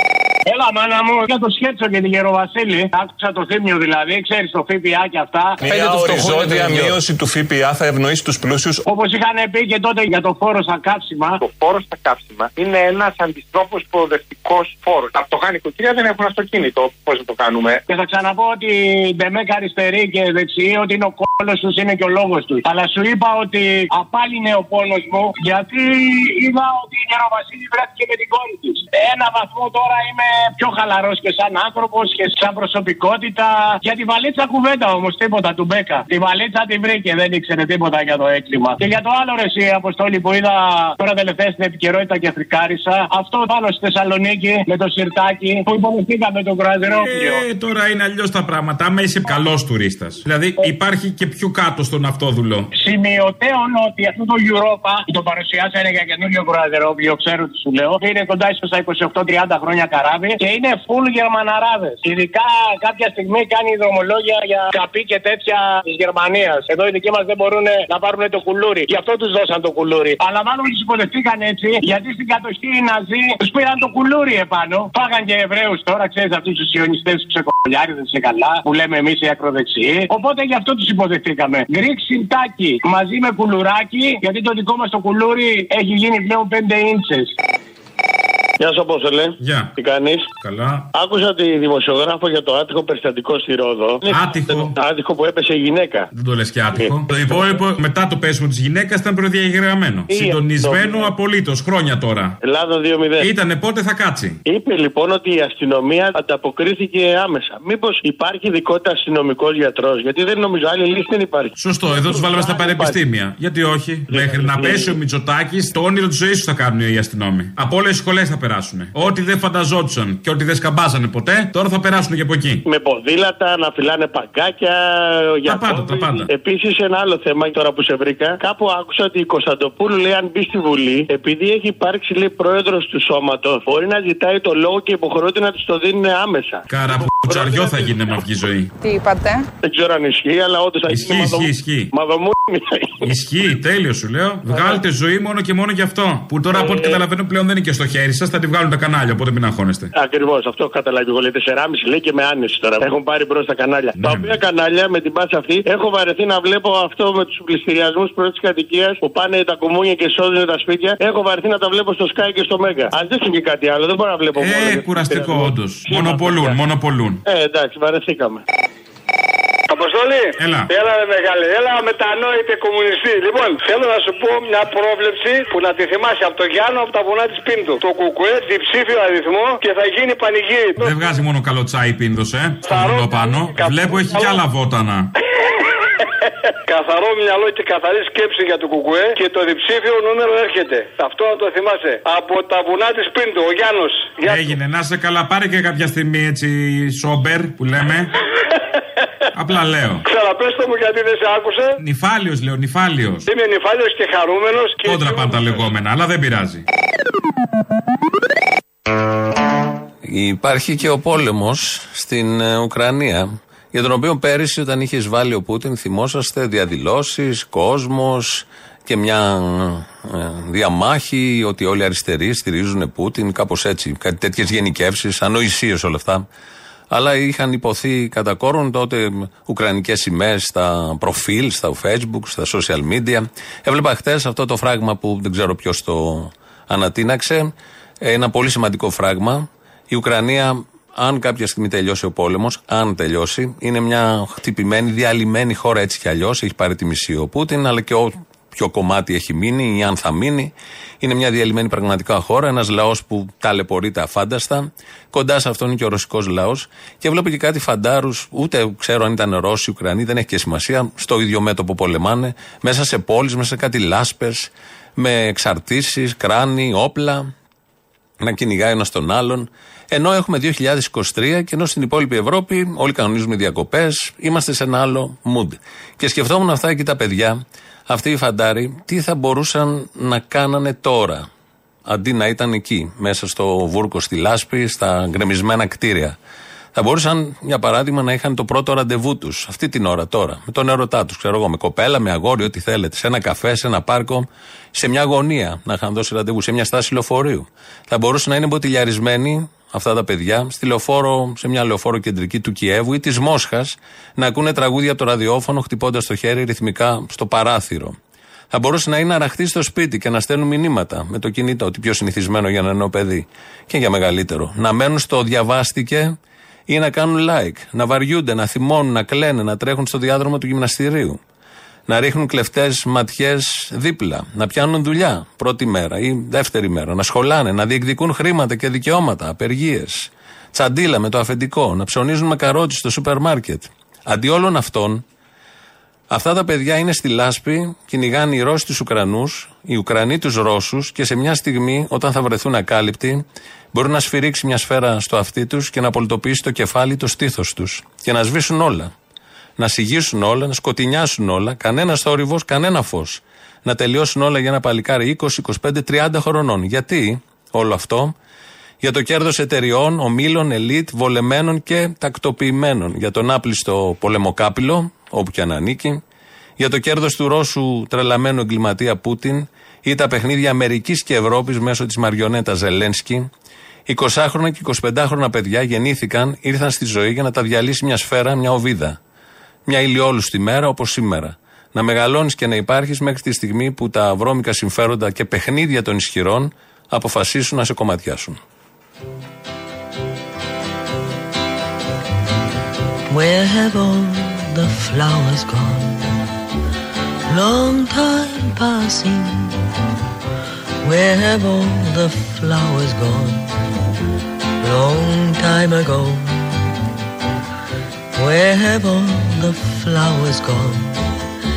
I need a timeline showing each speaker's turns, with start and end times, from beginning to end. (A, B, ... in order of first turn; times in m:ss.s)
0:00.5-0:05.6 A
0:05.6-0:08.8 B
0:08.9-0:11.4 A
0:17.9-0:47.4 A
0:46.9-0:52.7 C
0:52.8-1:27.3 A
1:28.6-1:30.3 D
1:29.4-1:29.7 C
1:30.4-1:30.9 C
1:30.9-1:36.1 D
1:34.1-1:34.7 C
1:36.1-1:42.4 C
1:36.7-1:37.4 D
1:40.1-1:41.1 D
1:42.4-1:43.3 D
1:43.2-1:44.4 C
1:44.4-1:53.0 D
1:51.6-2:02.6 C
1:54.1-1:54.9 D
2:02.7-2:16.7 D
2:05.5-2:06.3 C
2:16.7-2:18.7 C
2:19.6-2:23.1 D
2:20.9-2:21.9 C
2:23.0-2:29.9 C
2:24.5-2:24.8 D
2:26.5-2:27.0 D
2:30.0-2:46.6 D
2:34.0-2:34.4 C
2:44.4-2:47.2 C
2:47.2-2:48.4 D
2:49.7-3:00.9 E
2:50.4-2:50.7 C
3:00.8-3:05.1 C
3:02.7-3:04.4 E
3:05.4-3:06.0 E
3:06.7-3:14.5 E
3:14.2-3:18.1 C
3:19.4-3:20.0 C
3:20.0-3:21.7 E
3:21.8-3:23.2 C
3:23.3-3:25.6 E
3:24.8-3:26.6 C
3:30.0-3:46.3 F
3:46.9-4:27.3 F
4:28.2-4:41.3 F
4:41.9-4:46.2 F
4:46.7-5:08.0 F
5:08.5-5:16.2 F
5:16.7-5:21.2 F
5:21.9-5:35.0 F
5:36.1-5:48.9 F
5:49.6-5:58.2 F
5:58.8-6:06.0 F
6:06.6-6:13.3 F
6:13.9-6:19.0 F
6:19.7-6:28.4 F
6:33.1-6:36.2 G
6:37.3-6:39.6 G
6:40.8-6:43.5 G
6:44.6-6:46.7 G
6:48.2-6:51.0 G